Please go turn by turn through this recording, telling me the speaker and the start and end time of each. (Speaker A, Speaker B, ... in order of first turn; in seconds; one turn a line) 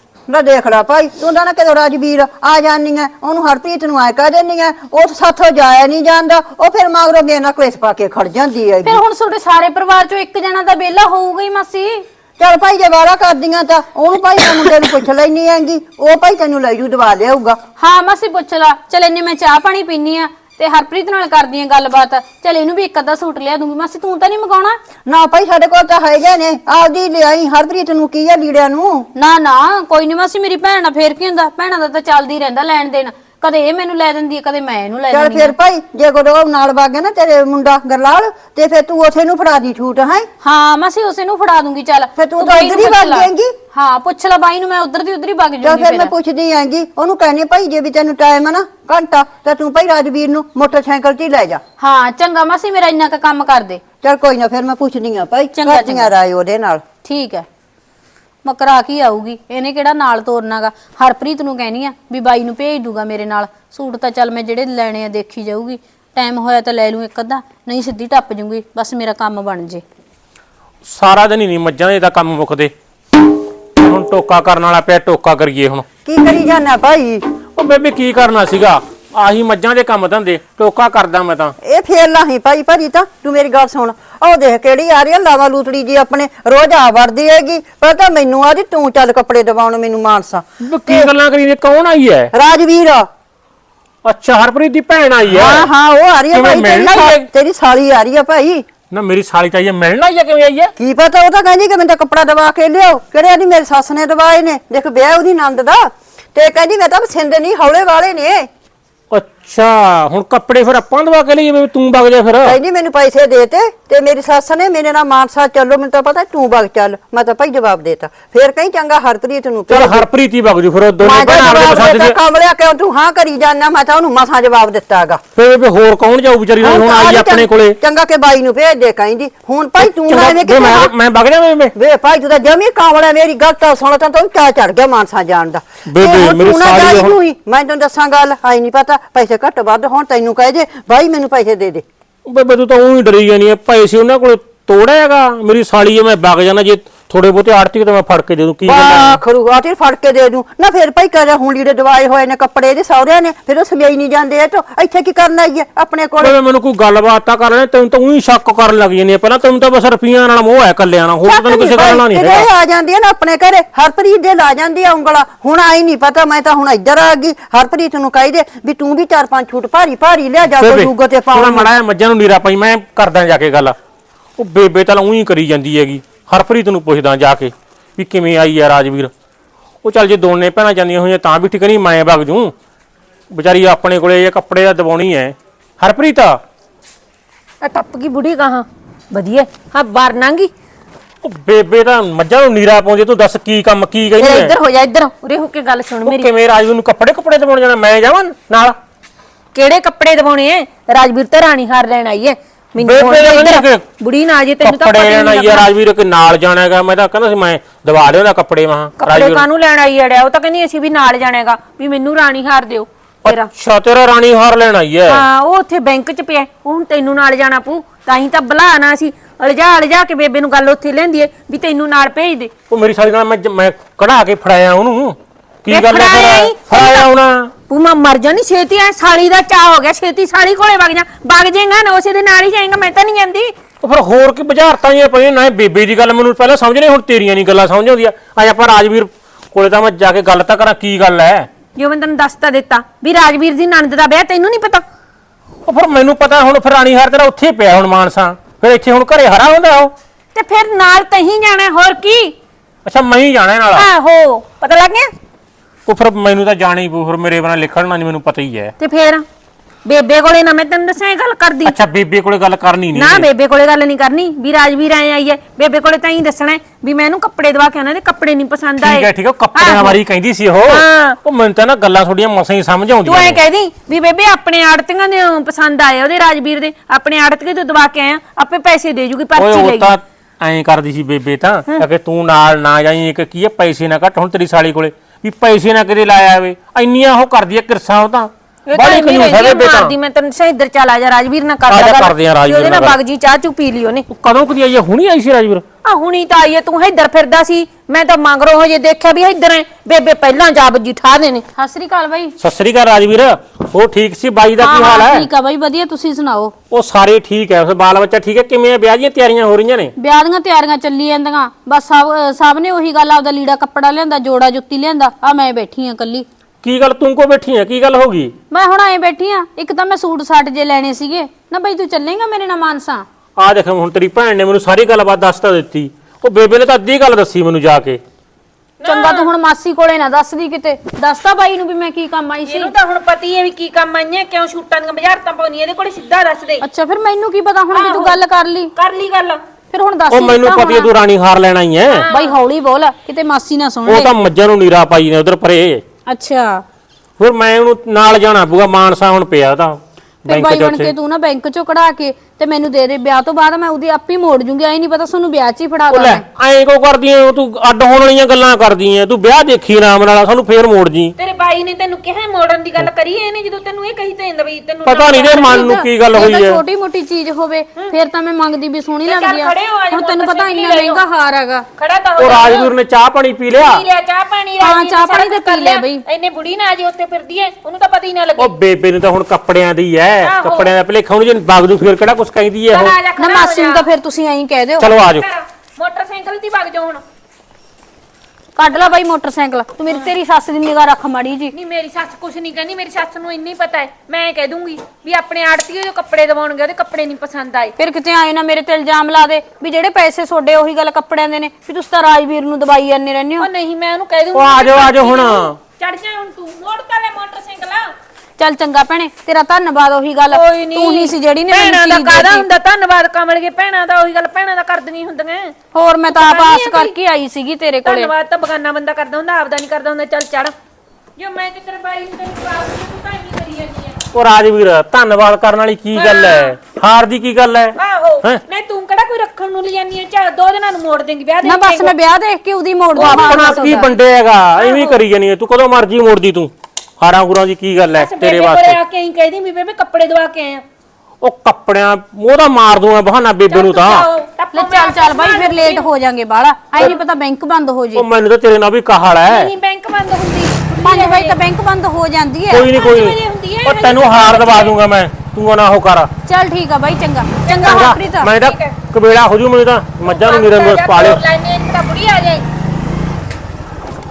Speaker A: 0.3-9.0
Speaker B: 8.8-12.0
Speaker A: 12.4-17.6
Speaker B: 17.8-24.8
Speaker A: 25.1-29.1
Speaker B: 29.1-35.5
Speaker A: 35.1-40.3
Speaker B: 40.4-46.1
Speaker A: 42.2-43.5
Speaker A: 45.6-51.6
Speaker B: 51.8-53.8
Speaker A: 54.0-56.8
Speaker B: 55.5-56.1
Speaker B: 57.0-57.5
Speaker B: 58.4-69.8
Speaker C: 70.8-72.7
Speaker C: 73.8-75.8
Speaker A: 76.0-77.2
Speaker C: 77.5-81.5
Speaker A: 81.6-91.1
Speaker C: 90.6-92.3
Speaker A: 92.3-93.1
Speaker C: 94.0-95.7
Speaker A: 95.3-98.6
Speaker C: 96.3-97.3
Speaker C: 98.9-100.7
Speaker A: 100.8-108.5
Speaker C: 109.1-112.5
Speaker A: 112.4-120.0
Speaker C: 119.7-122.1
Speaker A: 121.0-125.2
Speaker C: 125.3-127.8
Speaker A: 126.6-130.9
Speaker C: 130.0-131.7
Speaker A: 131.7-141.8
Speaker C: 135.9-137.1
Speaker C: 142.2-149.2
Speaker A: 148.6-156.4
Speaker C: 156.2-162.5
Speaker A: 161.2-171.7
Speaker C: 170.6-173.8
Speaker C: 174.4-179.1
Speaker C: 179.8-182.5
Speaker C: 183.3-186.4
Speaker D: 187.6-190.5
Speaker C: 191.2-194.5
Speaker D: 194.2-196.3
Speaker C: 196.1-198.8
Speaker D: 199.5-205.7
Speaker C: 202.8-203.8
Speaker C: 204.6-209.4
Speaker D: 209.0-213.5
Speaker C: 213.2-215.2
Speaker D: 215.1-222.5
Speaker C: 222.7-227.5
Speaker D: 225.7-227.1
Speaker D: 227.7-233.5
Speaker C: 233.8-241.5
Speaker D: 241.8-244.8
Speaker C: 245.7-249.9
Speaker D: 250.3-252.3
Speaker C: 252.8-253.9
Speaker D: 253.7-255.1
Speaker C: 255.8-258.7
Speaker D: 258.8-259.2
Speaker D: 259.8-261.8
Speaker C: 261.6-263.3
Speaker D: 262.9-270.0
Speaker C: 268.8-273.4
Speaker D: 270.6-271.2
Speaker D: 273.0-279.9
Speaker C: 279.4-289.9
Speaker D: 288.7-294.1
Speaker C: 291.7-293.0
Speaker C: 294.1-295.6
Speaker D: 295.8-301.4
Speaker B: 301.6-302.3
Speaker C: 302.4-305.3
Speaker B: 304.6-306.5
Speaker C: 306.7-309.9
Speaker B: 310.0-316.2
Speaker C: 316.6-318.3
Speaker B: 318.5-323.0
Speaker C: 323.4-328.0
Speaker D: 328.8-329.3
Speaker B: 328.8-332.7
Speaker D: 332.4-336.6
Speaker B: 336.6-338.7
Speaker D: 337.7-338.2
Speaker D: 338.8-339.4
Speaker B: 339.7-340.9
Speaker C: 340.1-342.1
Speaker D: 341.9-342.3
Speaker B: 342.1-344.1
Speaker C: 343.9-345.8
Speaker B: 346.1-346.6
Speaker C: 347.2-350.9
Speaker B: 350.2-356.2
Speaker C: 355.9-361.1
Speaker D: 361.2-365.8
Speaker C: 364.8-366.6
Speaker B: 365.3-371.6
Speaker D: 369.0-371.0
Speaker D: 371.8-372.7
Speaker C: 372.2-373.8
Speaker D: 373.5-378.5
Speaker B: 374.6-376.0
Speaker C: 378.4-382.9
Speaker D: 380.2-380.7
Speaker D: 382.7-383.8
Speaker B: 383.2-384.9
Speaker C: 384.8-385.2
Speaker D: 385.0-387.0
Speaker B: 388.6-391.5
Speaker D: 391.5-397.7
Speaker B: 397.8-403.5
Speaker D: 403.4-407.9
Speaker C: 404.3-405.6
Speaker B: 408.4-412.4
Speaker D: 410.3-415.5
Speaker B: 415.7-418.1
Speaker D: 416.1-416.9
Speaker D: 417.8-420.5
Speaker D: 421.2-424.0
Speaker C: 424.1-428.4
Speaker D: 425.9-426.5
Speaker D: 427.8-431.9
Speaker B: 431.4-433.9
Speaker C: 432.9-438.8
Speaker D: 432.9-433.5
Speaker D: 434.6-435.0
Speaker D: 437.9-440.6
Speaker C: 441.2-444.1
Speaker D: 443.5-445.8
Speaker B: 444.5-448.1
Speaker C: 447.9-449.5
Speaker D: 449.2-451.4
Speaker B: 450.8-452.7
Speaker C: 452.5-456.1
Speaker D: 452.6-454.8
Speaker B: 456.2-458.3
Speaker D: 457.4-458.8
Speaker C: 457.6-461.2
Speaker D: 460.0-462.4